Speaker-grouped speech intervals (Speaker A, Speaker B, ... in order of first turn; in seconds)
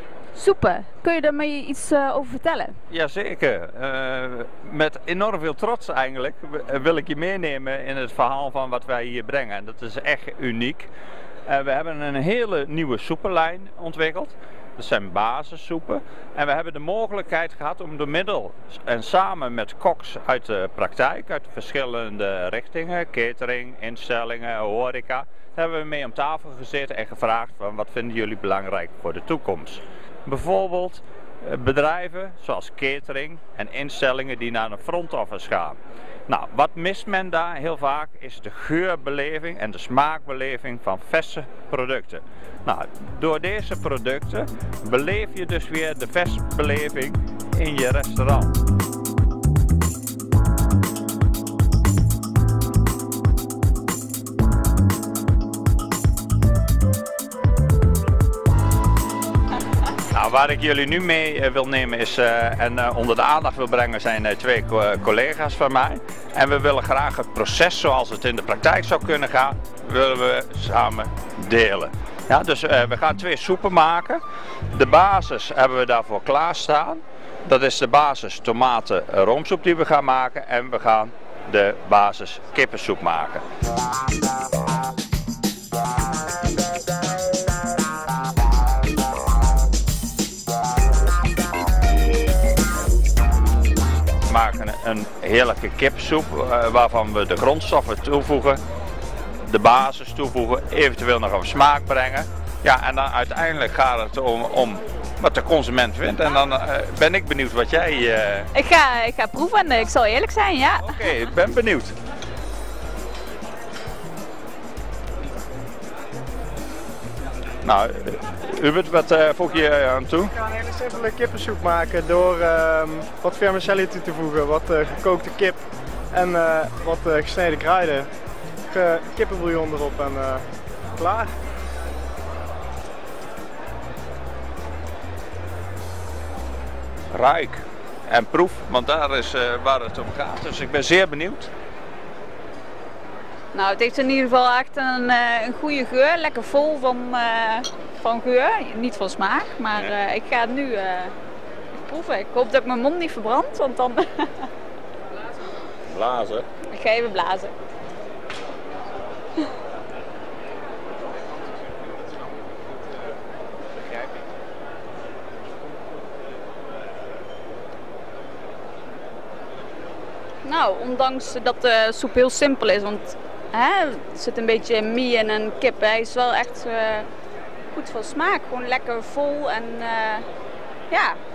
Speaker A: 0.3-2.8, 108.5-111.1, 143.5-151.1, 151.8-154.5, 156.7-157.5, 170.4-177.1, 177.7-180.3, 180.9-181.2
Speaker B: 2.9-10.9, 11.5-35.8, 36.3-48.5, 60.1-74.2, 74.7-83.4, 94.3-98.6, 99.5-108.5, 110.8-112.0, 117.6-120.3, 137.1-141.5, 155.9-156.5
Speaker C: 120.4-128.1, 128.7-131.3